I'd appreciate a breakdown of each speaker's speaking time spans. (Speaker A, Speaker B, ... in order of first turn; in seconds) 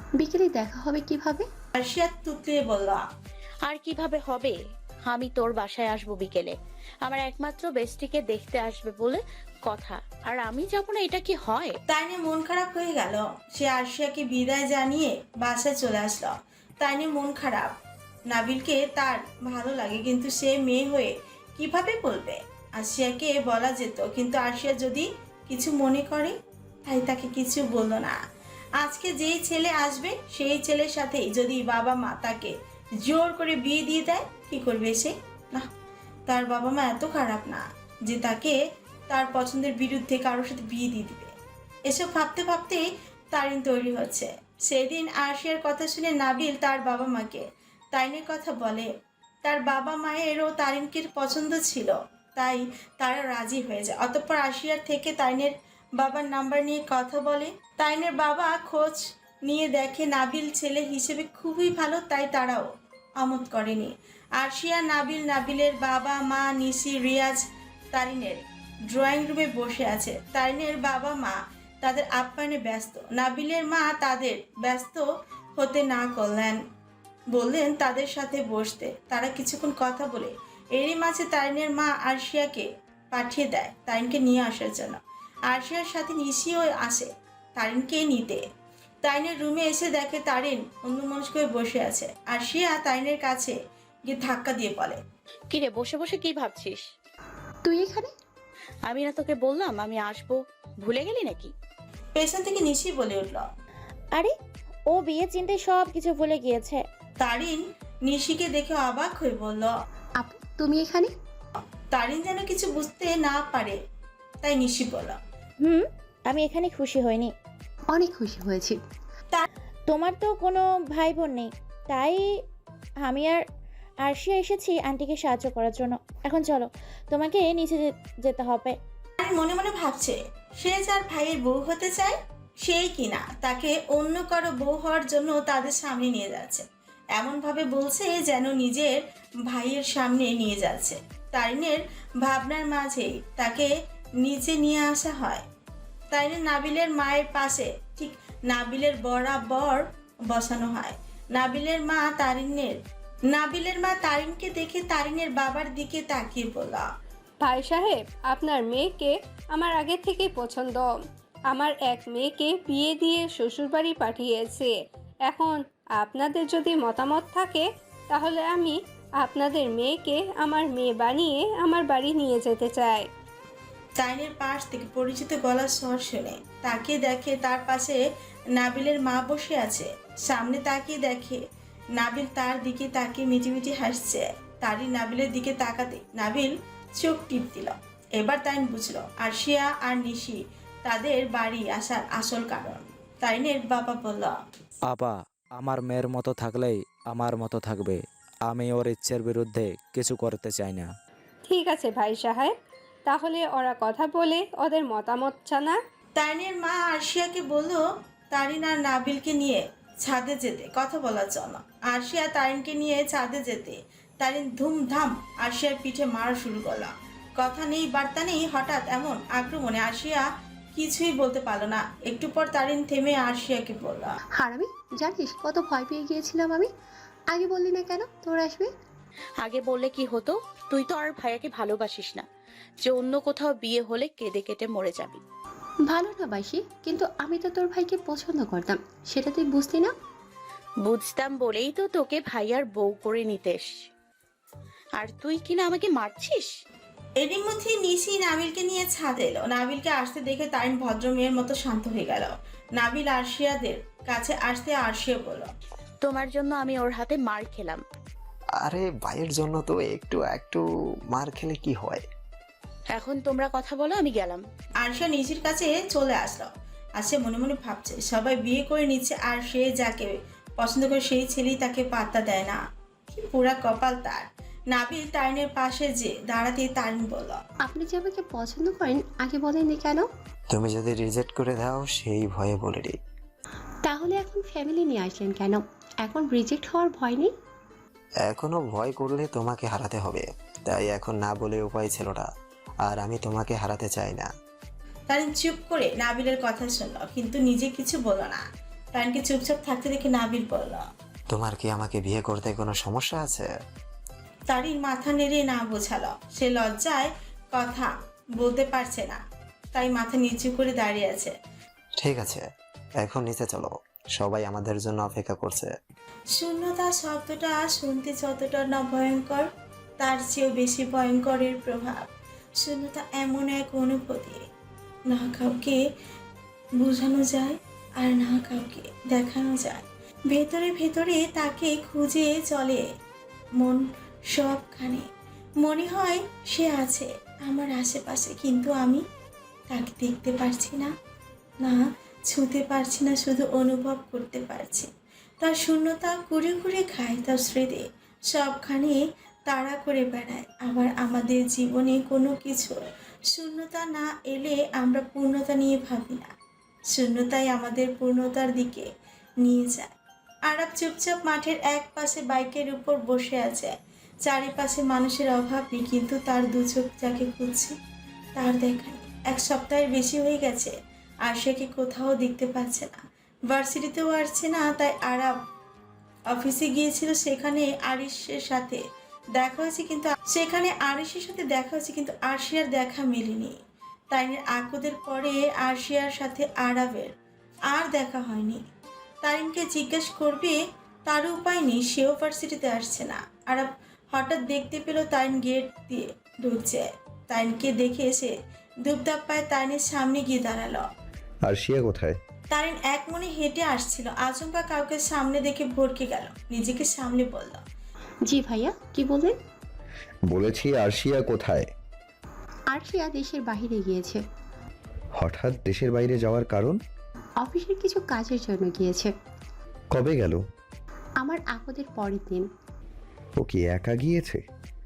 Speaker A: 0.2-1.5, 97.7-98.1, 110.2-111.1, 117.9-118.8, 224.4-226.7, 227.3-228.7, 235.9-239.9, 277.6-280.1, 283.9-287.3, 408.3-409.4, 412.7-414.2, 417.4-419.1, 421.2-422.5
Speaker B: 1.8-3.0, 11.9-17.8, 18.3-26.4, 26.9-28.2, 28.8-35.7, 36.3-38.6, 39.1-41.3, 41.9-48.9, 49.4-75.0, 75.6-76.6, 77.3-88.4, 89.0-95.0, 102.2-103.5, 107.2-109.7, 111.9-113.8, 114.4-115.2, 129.2-139.0, 139.5-145.4, 146.1-152.8, 153.3-156.9, 174.0-178.0, 178.5-181.4, 182.0-194.3, 206.2-224.2, 247.2-255.5, 264.8-272.6, 273.1-277.4, 295.1-300.9, 304.5-309.2, 309.7-311.3, 316.4-319.5, 320.0-322.1, 322.6-324.4, 325.1-325.8, 326.8-332.9, 333.6-335.1, 335.6-339.0, 339.7-340.9, 341.6-344.9, 345.4-356.3, 356.9-358.9, 359.4-359.9, 360.5-367.8, 368.4-375.3, 376.3-378.8, 379.4-383.6, 384.1-387.1, 387.7-388.6, 389.2-400.9, 402.5-407.6
Speaker C: 3.7-11.8, 95.5-96.8, 98.9-101.5, 229.4-232.3, 232.8-235.2, 240.8-243.7, 245.0-246.5, 256.0-257.8, 262.9-264.4
Speaker D: 104.9-106.8, 115.6-117.3, 119.9-122.3, 123.0-123.4, 124.0-128.8
Speaker E: 157.4-160.9, 161.5-164.8, 165.3-173.1, 201.5-202.5, 203.1-205.8
Speaker F: 194.9-200.9
Speaker G: 258.6-262.0, 280.5-283.0, 288.2-292.3, 292.9-294.3, 301.3-303.5, 312.0-312.4, 313.0-315.7
Speaker H: 401.4-402.2, 410.3-411.7, 415.2-416.8, 419.9-420.4, 423.4-424.4